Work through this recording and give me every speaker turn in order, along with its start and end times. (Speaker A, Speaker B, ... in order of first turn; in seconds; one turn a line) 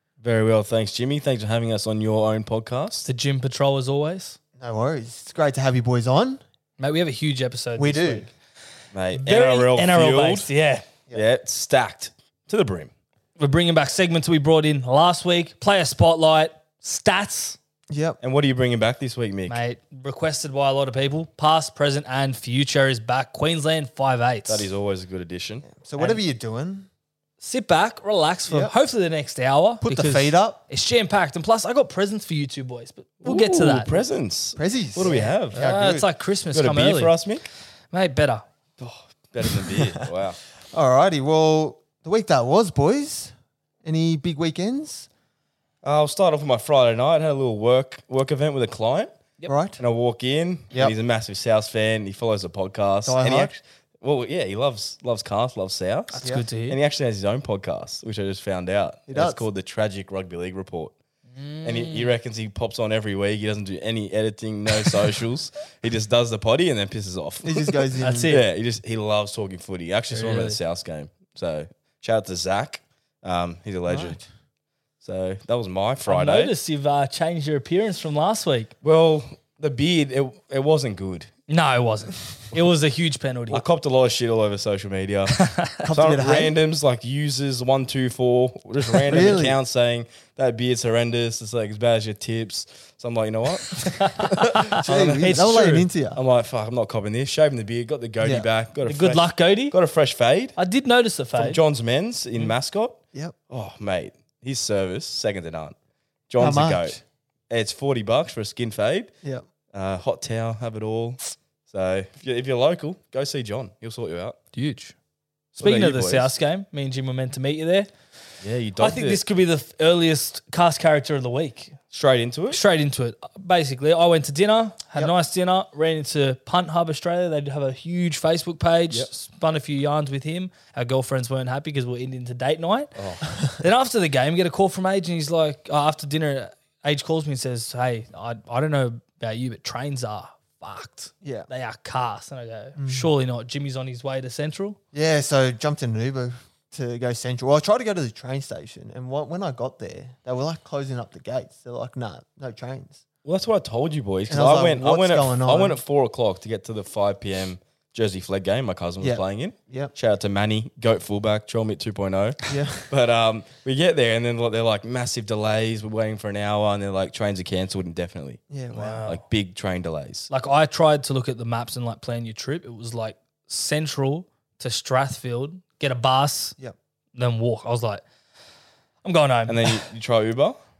Speaker A: 0.2-3.0
Speaker B: 3.0-4.4
Speaker C: 4.6-6.4
Speaker B: 6.8-8.3
Speaker C: 7.8-8.3
Speaker A: 8.9-10.5
Speaker B: 9.1-10.8
Speaker A: 11.1-12.9
Speaker B: 13.4-17.6
Speaker C: 17.9-18.2
Speaker A: 18.2-19.6
Speaker B: 19.5-24.7
Speaker A: 24.5-25.7
Speaker C: 25.6-26.9
Speaker B: 27.4-34.0
Speaker C: 29.8-30.6
Speaker A: 33.2-35.6
Speaker C: 34.5-36.1
Speaker B: 35.0-37.1
Speaker A: 36.5-37.4
Speaker B: 37.9-38.4
Speaker A: 38.8-40.4
Speaker C: 39.5-40.1
Speaker C: 40.7-45.1
Speaker A: 45.8-49.1
Speaker C: 49.5-49.8
Speaker A: 49.8-60.9
Speaker C: 53.0-53.5
Speaker B: 56.1-56.8
Speaker C: 59.1-59.4
Speaker B: 61.4-62.1
Speaker A: 61.6-74.2
Speaker C: 67.4-68.3
Speaker B: 68.0-68.4
Speaker B: 70.1-70.6
Speaker C: 73.9-74.2
Speaker A: 75.0-76.5
Speaker B: 76.0-78.7
Speaker A: 78.8-81.3
Speaker B: 81.5-83.6
Speaker A: 83.5-85.3
Speaker B: 85.3-85.8
Speaker C: 85.8-86.5
Speaker A: 85.9-100.6
Speaker C: 89.1-89.6
Speaker B: 93.8-95.6
Speaker C: 94.8-96.2
Speaker C: 98.2-98.5
Speaker B: 98.8-99.7
Speaker B: 100.5-101.6
Speaker A: 101.3-105.7
Speaker A: 106.3-107.0
Speaker C: 106.4-107.0
Speaker A: 107.5-109.1
Speaker A: 109.7-114.4
Speaker B: 114.5-114.9
Speaker A: 115.5-116.3
Speaker B: 115.6-117.9
Speaker A: 118.4-119.2
Speaker B: 118.8-121.8
Speaker A: 121.9-122.6
Speaker B: 122.5-132.9
Speaker A: 132.9-133.2
Speaker B: 133.5-144.8
Speaker C: 141.2-141.5
Speaker C: 142.8-143.1
Speaker C: 144.9-153.0
Speaker A: 153.2-168.4
Speaker C: 154.3-155.8
Speaker C: 159.0-159.9
Speaker C: 162.5-162.9
Speaker C: 168.5-169.0
Speaker B: 168.7-169.2
Speaker A: 169.1-170.3
Speaker B: 170.3-176.6
Speaker B: 177.1-178.0
Speaker B: 179.0-179.8
Speaker A: 179.5-180.6